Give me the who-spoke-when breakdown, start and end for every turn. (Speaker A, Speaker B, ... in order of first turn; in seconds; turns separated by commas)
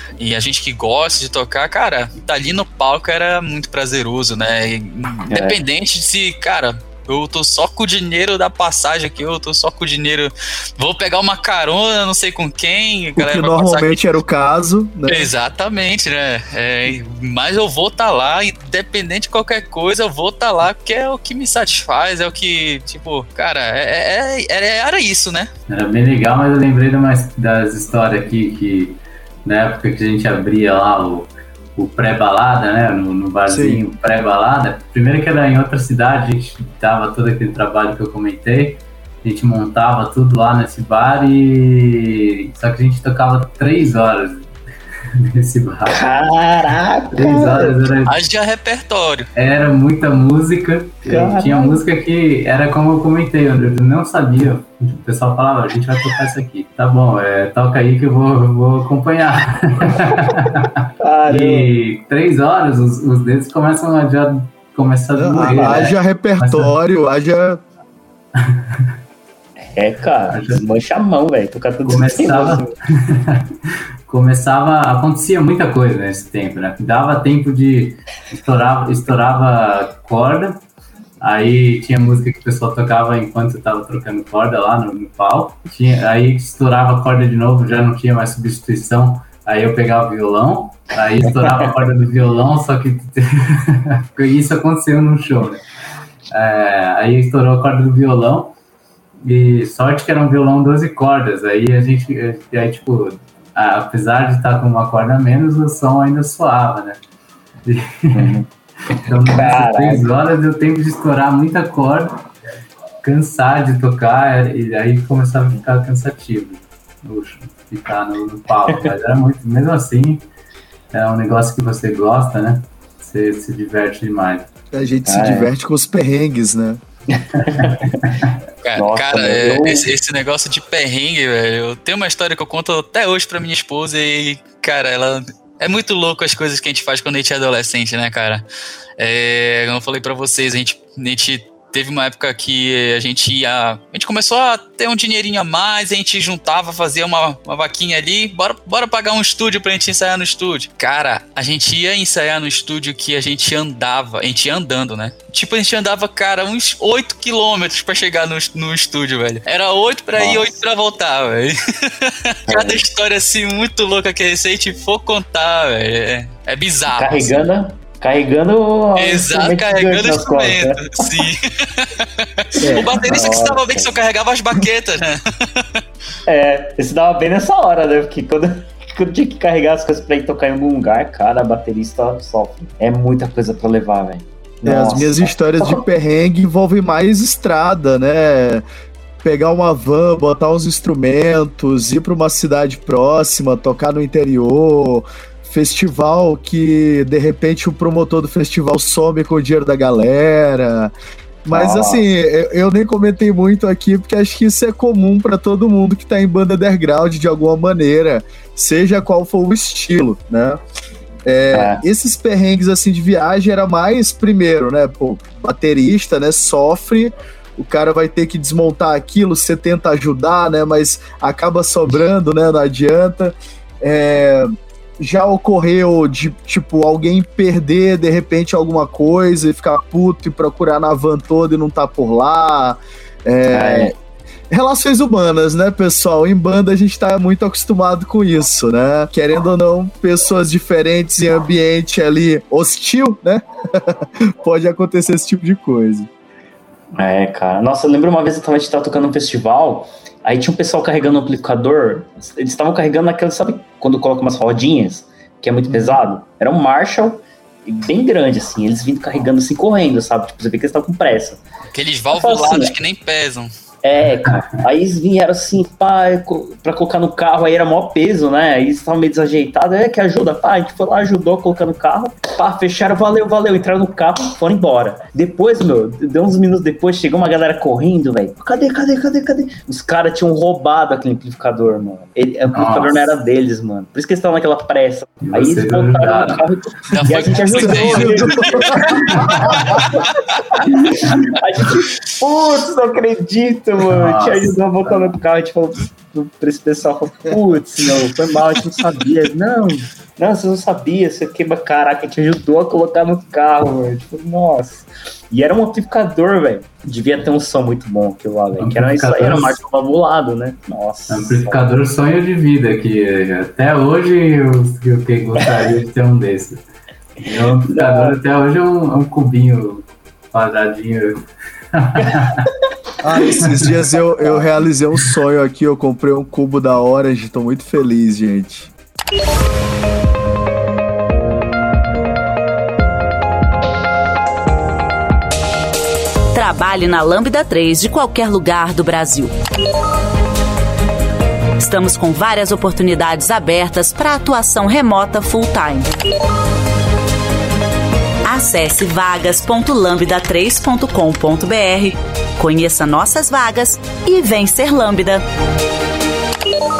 Speaker A: 0.2-14.0, Speaker B: 5.3-5.6, Speaker C: 13.2-15.3, Speaker A: 15.1-25.5, Speaker D: 25.7-44.5, Speaker C: 33.5-33.8, Speaker D: 45.2-46.0, Speaker B: 45.9-47.7, Speaker D: 47.1-48.2, Speaker A: 48.0-49.3, Speaker D: 49.3-66.7, Speaker B: 51.0-51.8, Speaker B: 61.0-61.7, Speaker C: 65.2-67.6, Speaker B: 65.5-65.8, Speaker D: 68.4-68.8, Speaker B: 69.6-72.7, Speaker D: 70.3-70.6, Speaker D: 71.8-80.6, Speaker D: 81.2-95.7, Speaker B: 91.4-91.7, Speaker D: 96.3-98.5, Speaker D: 99.2-107.0, Speaker D: 107.6-108.4, Speaker B: 108.1-110.1, Speaker D: 108.9-112.2, Speaker D: 113.0-120.3, Speaker D: 120.9-124.5, Speaker C: 124.7-126.8, Speaker B: 125.0-125.5, Speaker B: 127.1-128.0, Speaker D: 127.4-128.4, Speaker A: 128.6-138.4, Speaker B: 128.8-129.9, Speaker A: 139.0-167.4, Speaker B: 160.2-160.5, Speaker B: 162.5-162.8, Speaker B: 166.9-170.9, Speaker A: 168.9-175.8, Speaker B: 172.6-173.9, Speaker B: 176.2-185.8, Speaker C: 184.6-188.6, Speaker C: 189.2-200.9, Speaker C: 201.4-210.6, Speaker B: 201.5-202.0, Speaker C: 211.2-233.9, Speaker B: 211.5-211.8, Speaker B: 233.5-233.9, Speaker C: 234.5-246.1, Speaker B: 246.9-261.4, Speaker A: 261.7-263.5, Speaker B: 262.1-262.7, Speaker B: 263.8-311.6, Speaker D: 264.2-264.6, Speaker D: 282.5-283.1, Speaker D: 285.2-286.4, Speaker A: 286.9-288.7, Speaker C: 287.5-289.8, Speaker D: 289.1-289.9, Speaker D: 290.9-291.2, Speaker D: 293.9-295.1, Speaker D: 308.6-309.6, Speaker D: 311.1-316.6, Speaker D: 317.2-322.5, Speaker B: 317.6-318.1, Speaker C: 323.0-328.7, Speaker D: 323.4-323.7, Speaker B: 324.2-324.5, Speaker E: 336.3-339.3, Speaker E: 341.6-345.9, Speaker E: 348.2-355.2